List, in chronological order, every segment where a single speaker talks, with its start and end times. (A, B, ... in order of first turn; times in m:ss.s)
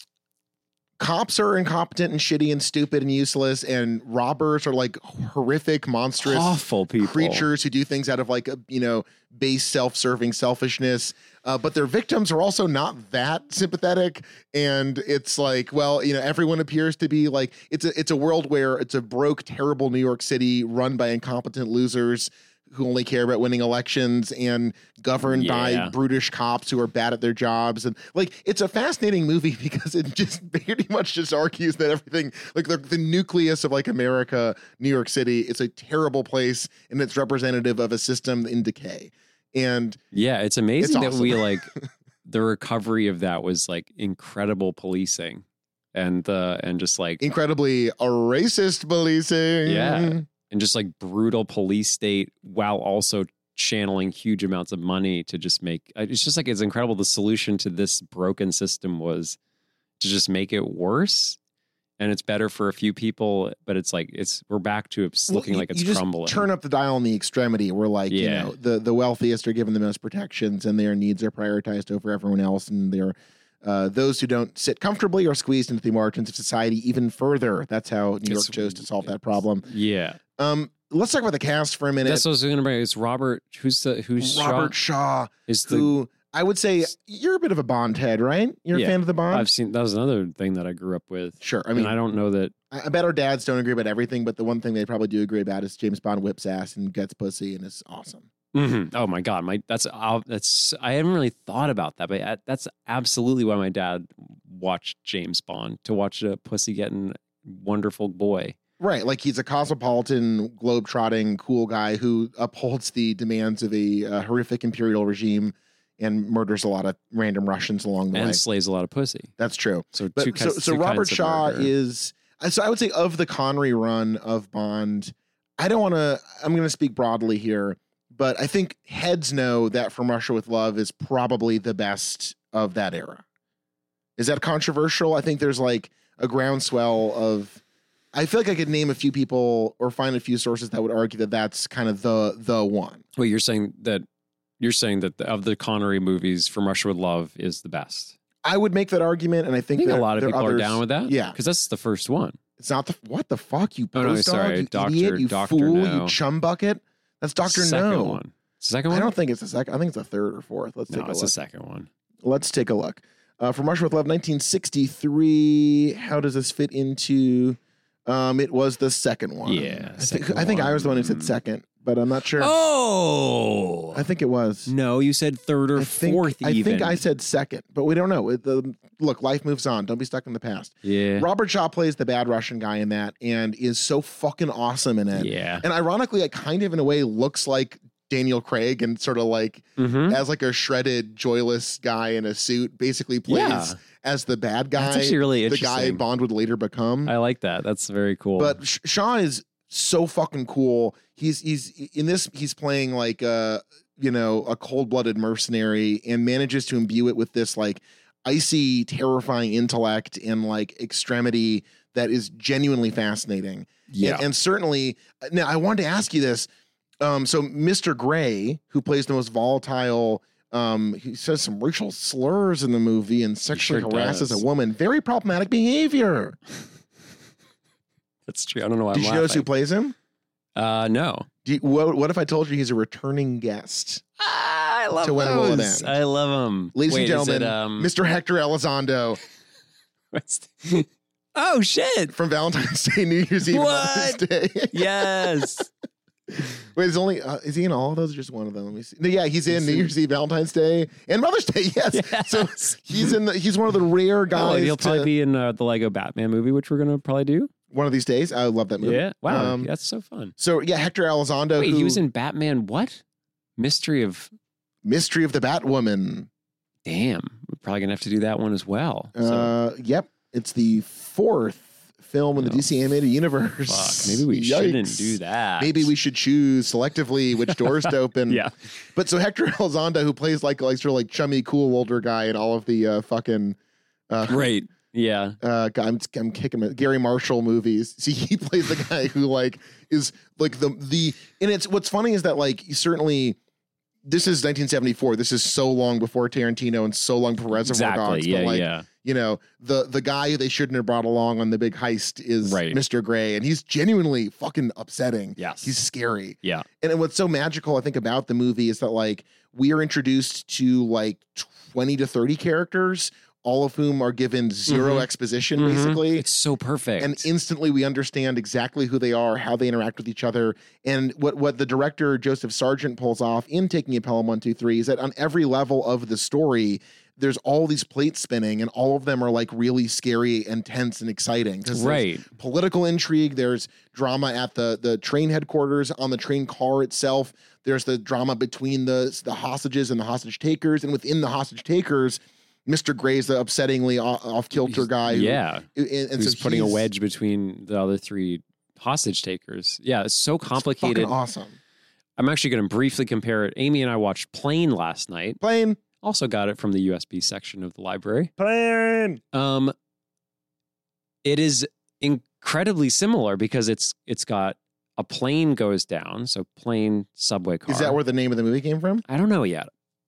0:01.0-0:40.0 A
0:06.2-0:07.5 B
0:25.3-0:25.9 B
0:40.1-0:41.7 B
0:40.8-0:41.8 A
0:42.2-0:47.2 B
0:47.2-0:50.2 A
0:49.6-0:59.4 B
1:00.0-1:01.4 B
1:02.0-1:06.5 B
1:05.3-1:19.6 A
1:08.1-1:08.5 B
1:18.2-1:19.0 B
1:19.6-1:20.2 B
1:20.4-1:22.2 A
1:22.0-1:24.7 B
1:24.2-1:29.5 A
1:25.5-1:25.9 B
1:28.7-1:32.5 B
1:31.4-1:31.9 A
1:32.7-1:38.3 A
1:38.5-1:48.6 B
1:48.8-1:58.4 A
1:58.1-1:59.3 B
1:59.4-2:13.2 A
1:59.9-2:01.7 B
2:14.2-2:17.6 A
2:18.1-2:23.0 A
2:23.2-2:24.0 B
2:24.6-2:28.1 B
2:28.4-2:31.4 A
2:29.8-2:32.4 B
2:32.6-2:38.2 A
2:33.9-2:36.2 B
2:37.4-2:39.1 B
2:38.9-2:41.3 A
2:40.9-2:41.9 B
2:42.2-2:52.5 A
2:49.4-2:51.4 B
2:52.4-2:54.0 B
2:53.9-2:54.7 A
2:54.7-2:57.0 B
2:55.8-3:17.1 A
3:00.8-3:01.3 B
3:05.1-3:05.6 B
3:09.8-3:10.2 B
3:13.3-3:13.8 B
3:14.8-3:16.0 B
3:17.0-3:18.6 B
3:18.4-3:36.5 A
3:33.9-3:34.2 B
3:37.0-3:46.4 A
3:43.5-3:44.4 B
3:48.3-3:49.5 B
3:48.9-3:49.9 A
3:50.6-3:51.3 B
3:51.4-3:54.0 A
3:54.2-3:57.9 B
3:55.0-3:56.0 A
3:56.7-3:59.2 A
4:00.1-4:02.1 B
4:02.1-4:05.5 A
4:03.5-4:05.7 B
4:06.3-4:15.1 A
4:09.5-4:09.9 B
4:11.9-4:13.1 B
4:14.3-4:17.5 B
4:17.7-4:19.7 A
4:18.8-4:20.3 B
4:20.4-4:22.0 A
4:21.6-4:23.0 B
4:23.6-4:24.3 B
4:24.8-4:26.3 A
4:26.8-4:29.5 B
4:29.2-4:38.4 A
4:32.4-4:32.6 B
4:33.7-4:35.9 B
4:37.5-4:38.5 B
4:38.9-4:43.6 A
4:44.1-4:44.5 A
4:44.3-4:45.4 B
4:45.4-4:53.4 A
4:54.0-5:16.2 A
4:57.6-4:58.8 B
5:02.4-5:02.8 B
5:05.4-5:05.7 B
5:14.7-5:15.0 B
5:15.6-5:17.2 B
5:17.0-5:46.9 A
5:31.7-5:32.2 B
5:44.6-5:45.6 B
5:46.2-5:51.1 B
5:50.6-5:51.6 A
5:52.2-5:55.4 B
5:55.4-5:55.8 A
5:56.0-5:58.3 B
5:58.4-5:59.2 A
5:59.3-5:59.7 B
6:01.2-6:08.0 B
6:07.7-6:09.0 A
6:09.1-6:09.7 B